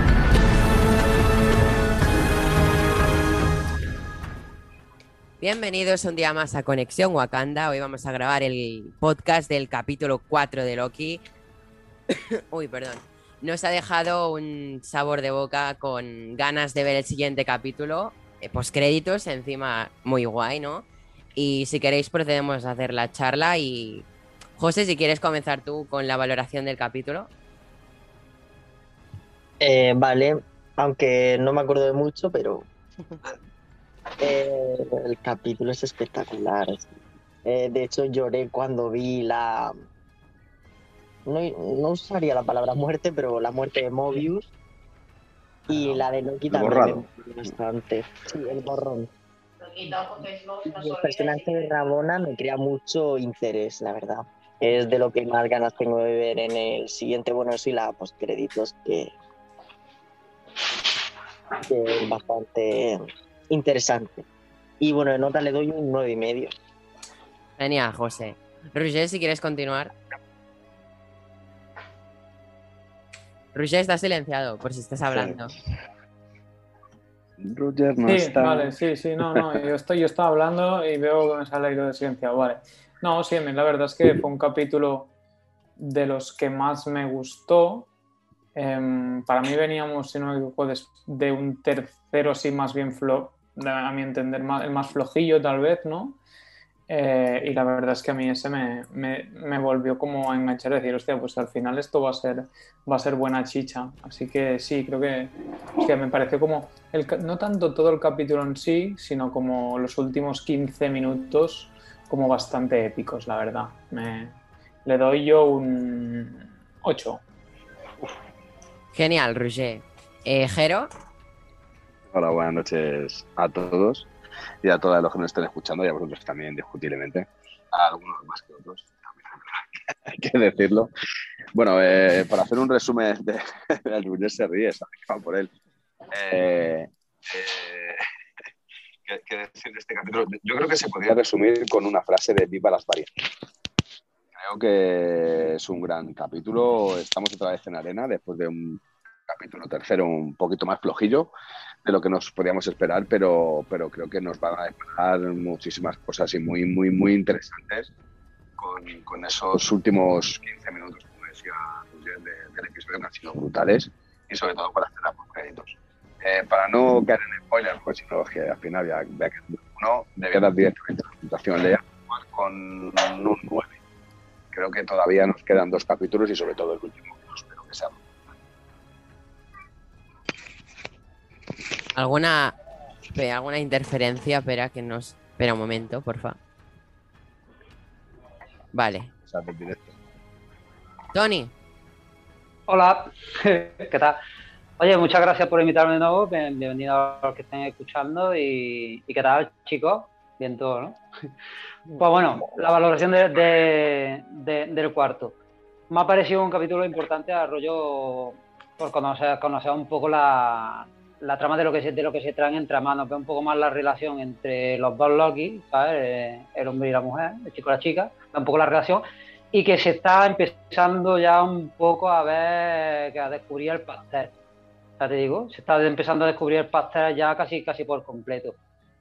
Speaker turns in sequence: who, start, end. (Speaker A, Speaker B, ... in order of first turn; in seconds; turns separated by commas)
Speaker A: 5.4-11.2, Speaker A: 12.1-24.1, Speaker A: 24.6-27.3, Speaker B: 29.6-32.7, Speaker B: 34.2-36.9, Speaker B: 37.4-39.7, Speaker B: 41.2-44.5, Speaker C: 45.7-47.5, Speaker B: 45.7-49.1, Speaker B: 49.8-59.1, Speaker B: 61.6-64.2, Speaker B: 64.8-66.5, Speaker A: 67.6-69.9, Speaker A: 73.5-75.5, Speaker C: 75.1-75.5, Speaker C: 77.4-78.7, Speaker D: 78.0-85.1, Speaker C: 79.2-79.6, Speaker D: 85.8-87.9, Speaker D: 88.5-96.2, Speaker D: 96.9-117.2, Speaker A: 118.9-120.9, Speaker C: 122.1-124.1, Speaker C: 124.6-130.9, Speaker C: 131.5-135.5, Speaker C: 136.1-138.0, Speaker C: 139.0-143.2, Speaker C: 144.3-151.3, Speaker C: 151.8-157.9, Speaker C: 158.6-173.8, Speaker C: 174.5-178.0, Speaker A: 181.9-182.6, Speaker A: 183.1-186.4, Speaker A: 188.7-189.1, Speaker C: 189.2-190.0, Speaker A: 191.1-191.5, Speaker E: 192.7-194.2, Speaker E: 194.8-201.0, Speaker E: 202.0-205.3, Speaker E: 205.9-224.3, Speaker E: 225.0-228.6